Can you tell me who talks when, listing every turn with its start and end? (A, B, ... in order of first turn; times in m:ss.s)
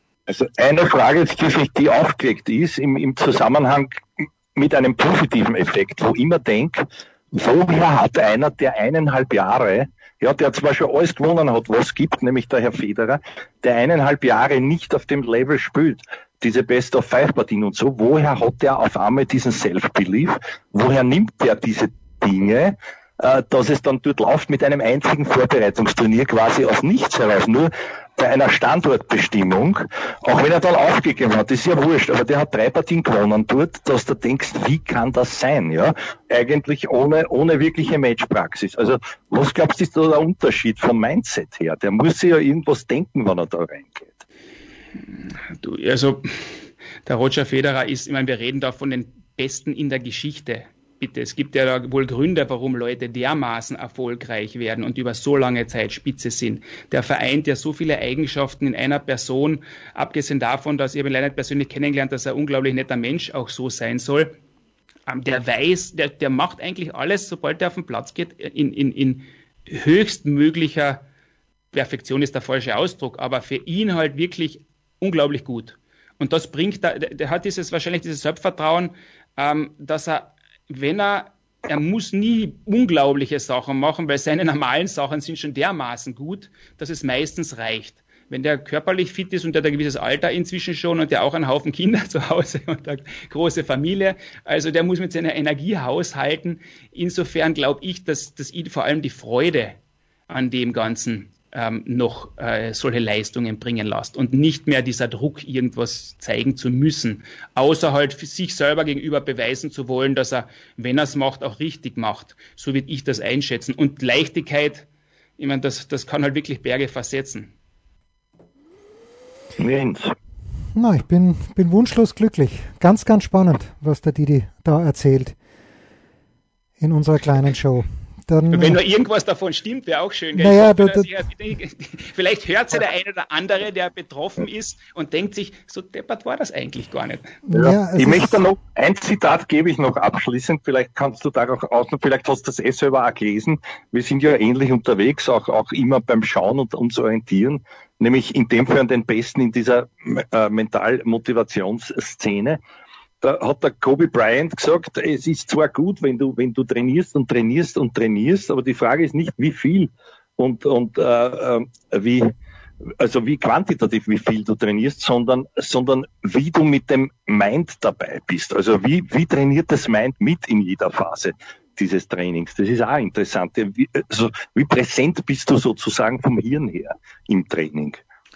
0:00.3-0:44.2 A
0:45.5-0:46.5 B
0:47.0-1:04.4 B
1:05.1-1:11.0 B
1:11.7-1:39.8 B
1:40.3-1:54.8 B
1:55.4-1:57.5 B
1:59.6-2:00.1 A
2:00.7-2:05.3 C
2:06.8-2:08.8 C
2:08.5-2:17.4 B
2:10.4-2:11.1 C
2:17.5-2:18.4 C
2:17.5-2:32.6 A
2:33.2-2:42.3 A
2:43.0-2:58.0 A